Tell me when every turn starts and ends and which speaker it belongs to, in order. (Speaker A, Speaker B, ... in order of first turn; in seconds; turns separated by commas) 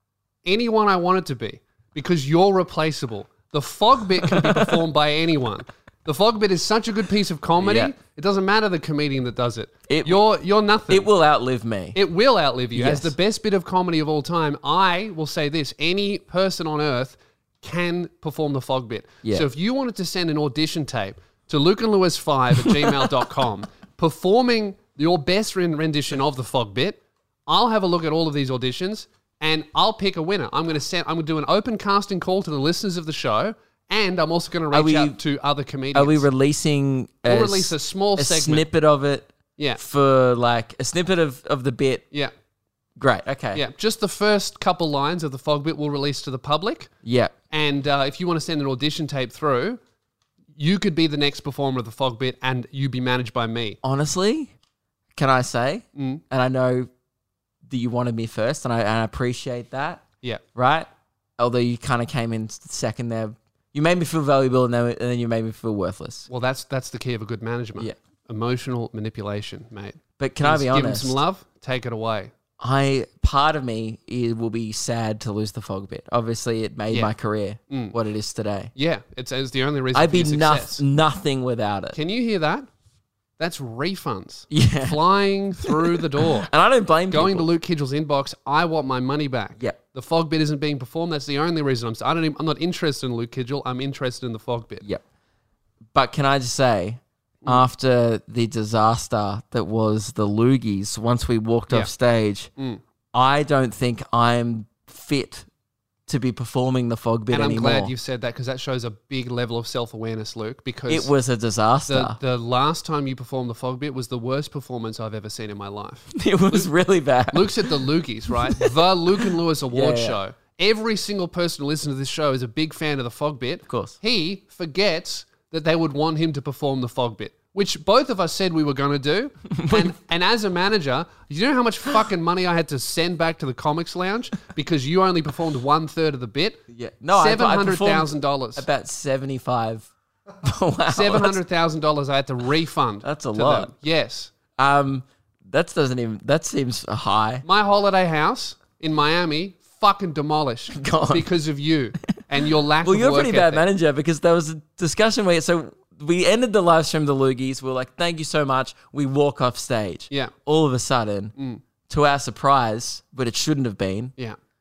Speaker A: 0.4-11.1, Speaker B: 4.3-4.6, Speaker B: 7.6-7.9, Speaker B: 9.9-10.2, Speaker B: 10.9-12.0, Speaker A: 11.9-36.2, Speaker B: 12.7-13.1, Speaker B: 34.7-35.2, Speaker B: 35.9-42.0, Speaker A: 37.2-38.6, Speaker A: 39.6-39.8, Speaker B: 43.0-43.6, Speaker A: 43.5-46.9, Speaker B: 47.0-47.3, Speaker A: 47.5-49.8, Speaker A: 50.5-53.8, Speaker B: 53.8-54.5, Speaker B: 55.1-56.9, Speaker A: 56.0-56.2, Speaker B: 57.7-66.3, Speaker A: 66.3-72.3, Speaker B: 70.2-71.2, Speaker B: 72.6-78.7, Speaker A: 77.7-77.9, Speaker A: 78.8-80.8, Speaker B: 79.9-82.0, Speaker A: 81.9-82.7, Speaker A: 83.4-86.5, Speaker B: 84.5-85.0, Speaker B: 85.6-87.5, Speaker A: 87.1-94.8, Speaker B: 95.9-102.5, Speaker B: 103.1-105.5, Speaker B: 106.1-107.9, Speaker A: 107.3-111.1, Speaker B: 110.9-112.2, Speaker A: 111.9-116.7, Speaker B: 116.1-117.8, Speaker A: 117.3-136.6, Speaker B: 119.7-120.2, Speaker B: 123.7-124.0, Speaker B: 129.6-129.9, Speaker B: 136.7-139.9, Speaker A: 137.1-138.6, Speaker B: 140.4-141.4, Speaker A: 140.9-144.3, Speaker B: 143.0-143.7, Speaker B: 144.6-147.4, Speaker A: 147.4-153.6, Speaker B: 150.7-151.3, Speaker B: 152.8-161.3, Speaker A: 161.3-161.6, Speaker B: 161.9-164.1